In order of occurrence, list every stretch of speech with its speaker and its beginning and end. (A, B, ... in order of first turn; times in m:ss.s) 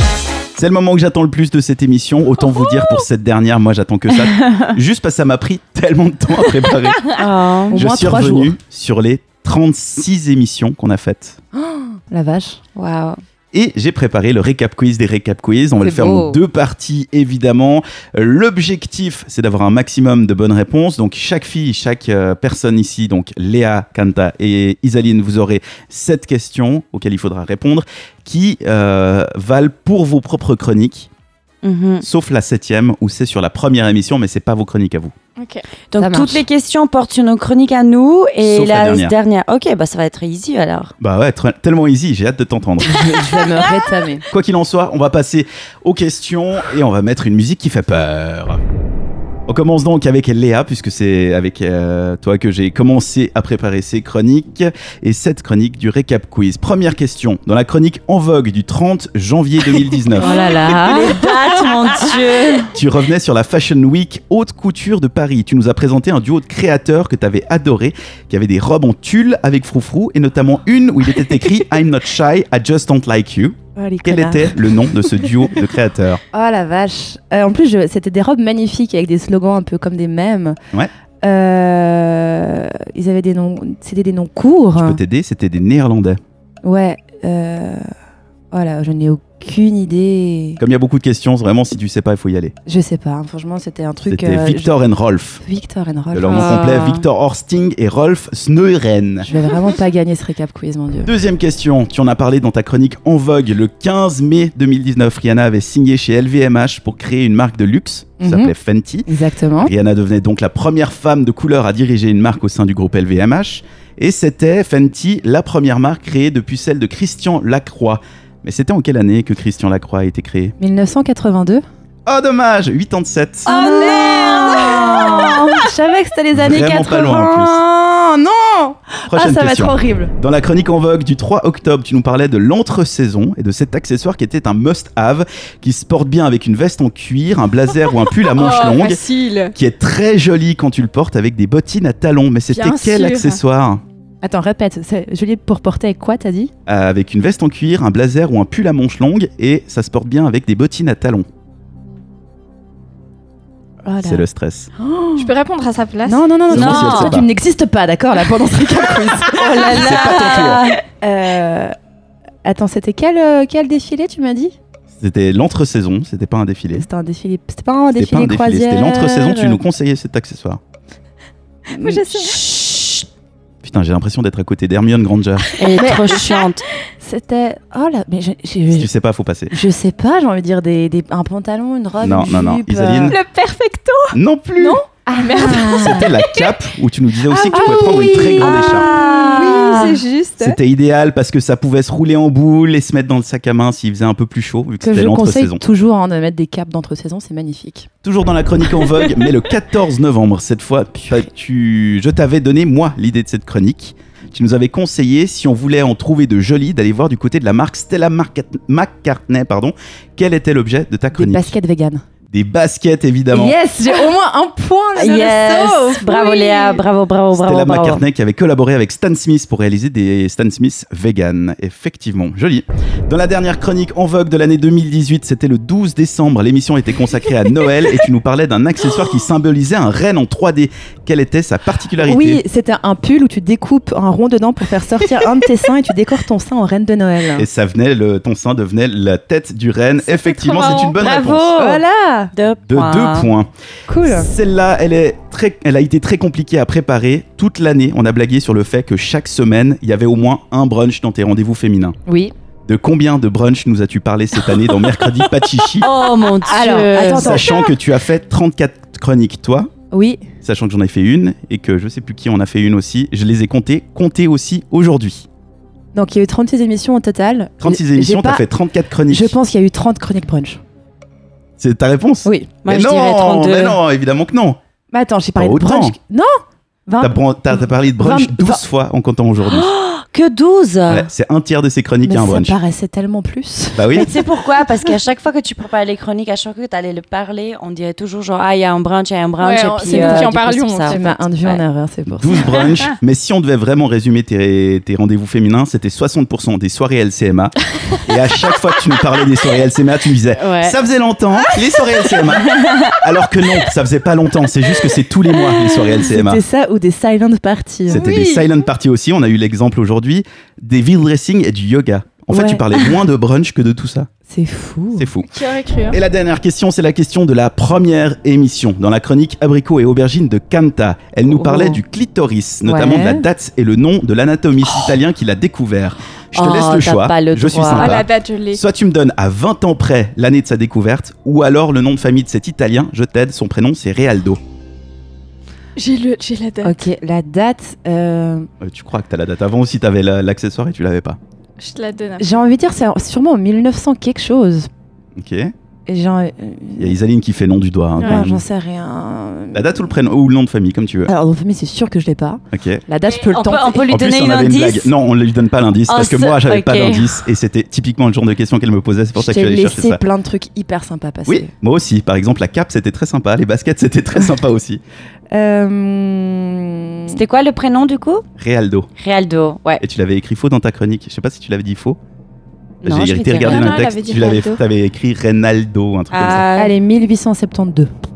0:00.6-0:07.2 A
0:07.1-0:07.8 B
0:07.7-0:08.5 C
0:07.7-0:11.4 A
0:11.6-0:12.6 C
0:12.8-0:13.2 B
0:13.5-0:31.1 A
0:15.8-0:16.4 C
0:31.6-0:32.0 B
0:32.0-0:35.1 A
0:35.4-0:35.7 D
0:35.9-0:40.9 B
0:36.0-0:36.4 C
0:38.4-0:39.2 A
0:41.0-0:43.0 A
0:42.8-0:44.2 C
0:43.0-0:43.7 B
0:44.3-0:48.6 A
0:49.5-1:00.3 A
1:00.2-1:01.3 C
1:00.2-1:02.7 B
1:02.7-1:16.2 A
1:13.8-1:14.6 C
1:16.3-1:20.6 C
1:21.2-1:25.0 C
1:24.8-1:26.2 A
1:26.6-1:27.9 C
1:28.5-1:30.6 C
1:30.6-1:32.6 A
1:32.7-1:34.7 C
1:34.0-1:35.4 A
1:35.4-1:36.5 C
1:36.1-1:39.3 A
1:36.3-1:37.0 B
1:39.2-1:41.1 C
1:41.0-2:00.6 A
1:48.2-1:48.5 C
1:49.1-1:49.7 C
2:00.6-2:01.6 C
2:02.1-2:03.5 A
2:03.5-2:05.6 D
2:03.5-2:10.1 C
2:04.7-2:05.1 B
2:06.3-2:07.6 A
2:09.1-2:19.0 A
2:18.4-2:19.5 D
2:19.6-2:23.8 A
2:22.5-2:23.4 D
2:24.2-2:26.5 C
2:26.7-2:31.3 A
2:33.8-2:34.2 C
2:34.0-2:34.7 A
2:34.8-2:35.3 C
2:35.2-2:36.2 D
2:36.1-2:41.8 C
2:36.5-2:37.3 A
2:36.5-2:37.2 B
2:39.3-2:40.8 B
2:39.7-2:40.7 A
2:42.4-2:44.6 C
2:45.0-2:46.9 A
2:46.7-2:49.6 C
2:48.0-2:50.6 A
2:51.7-2:52.4 C
2:51.8-2:52.4 D
2:52.6-2:53.0 B
2:53.6-2:55.5 A
2:55.6-2:56.6 B
2:55.8-2:56.2 C
2:57.0-2:58.9 C
2:58.7-2:59.5 A
2:59.5-3:03.2 C
3:02.0-3:03.2 A
3:03.1-3:06.6 D
3:04.1-3:04.8 A
3:05.1-3:06.1 C
3:05.4-3:08.9 A
3:07.3-3:09.8 C
3:07.4-3:10.6 D
3:08.1-3:10.0 B
3:10.4-3:15.6 A
3:14.8-3:17.9 C
3:18.0-3:31.5 A
3:31.1-3:32.0 C
3:32.3-3:33.6 A
3:33.3-3:36.8 C
3:35.0-3:38.0 B
3:37.3-3:52.4 A
3:52.0-3:57.5 C
3:57.4-4:01.5 A
4:00.0-4:01.0 D
4:00.9-4:01.8 B
4:01.6-4:02.3 C
4:02.3-4:03.3 B
4:02.7-4:03.5 A
4:03.9-4:04.3 C
4:04.0-4:12.0 A
4:12.1-4:12.3 C
4:12.7-4:15.9 A
4:15.8-4:17.7 B
4:16.4-4:17.5 C
4:17.1-4:19.7 A
4:19.9-4:20.2 C
4:20.4-4:25.3 A
4:25.9-4:28.4 C
4:27.6-4:29.4 A
4:29.1-4:30.6 C
4:31.6-4:34.6 A
4:32.2-4:32.5 C
4:32.6-4:33.8 B
4:34.9-4:38.6 C
4:35.4-4:36.0 A
4:37.0-4:39.7 A
4:39.4-4:41.1 B
4:40.9-4:42.6 A
4:42.0-4:44.1 C
4:43.8-4:44.1 A
4:43.9-4:51.6 B
4:49.4-4:51.2 D
4:49.8-4:52.7 C
4:52.1-5:06.4 A
5:00.3-5:00.8 B
5:02.5-5:02.8 B
5:06.1-5:08.1 C
5:07.9-5:14.1 A
5:07.9-5:08.5 D
5:12.3-5:12.9 C
5:14.3-5:15.1 C
5:15.0-5:15.4 A
5:15.3-5:16.0 D
5:15.9-5:34.4 A
5:21.2-5:21.8 C
5:22.6-5:23.3 C
5:26.4-5:28.0 B
5:27.8-5:28.6 D
5:35.8-5:36.9 D
5:36.6-5:38.5 C
5:38.6-5:41.2 A
5:41.6-5:42.4 D
5:42.2-5:44.7 C
5:45.2-5:45.5 A
5:45.9-5:47.0 C
5:46.8-5:48.4 A
5:48.0-5:49.8 C
5:49.5-5:51.1 A
5:51.1-5:53.9 C
5:52.5-5:52.8 A
5:53.3-5:54.9 B
5:53.9-6:00.0 A
5:55.9-5:57.2 B
5:59.2-6:01.5 C
6:01.3-6:04.8 A
6:05.3-6:07.2 C
6:07.1-6:08.2 B
6:08.4-6:08.9 A
6:09.0-6:09.8 B
6:09.8-6:12.0 A
6:12.8-6:16.5 A
6:12.8-6:14.2 B
6:13.4-6:14.6 D
6:16.1-6:16.8 B
6:16.6-6:17.9 C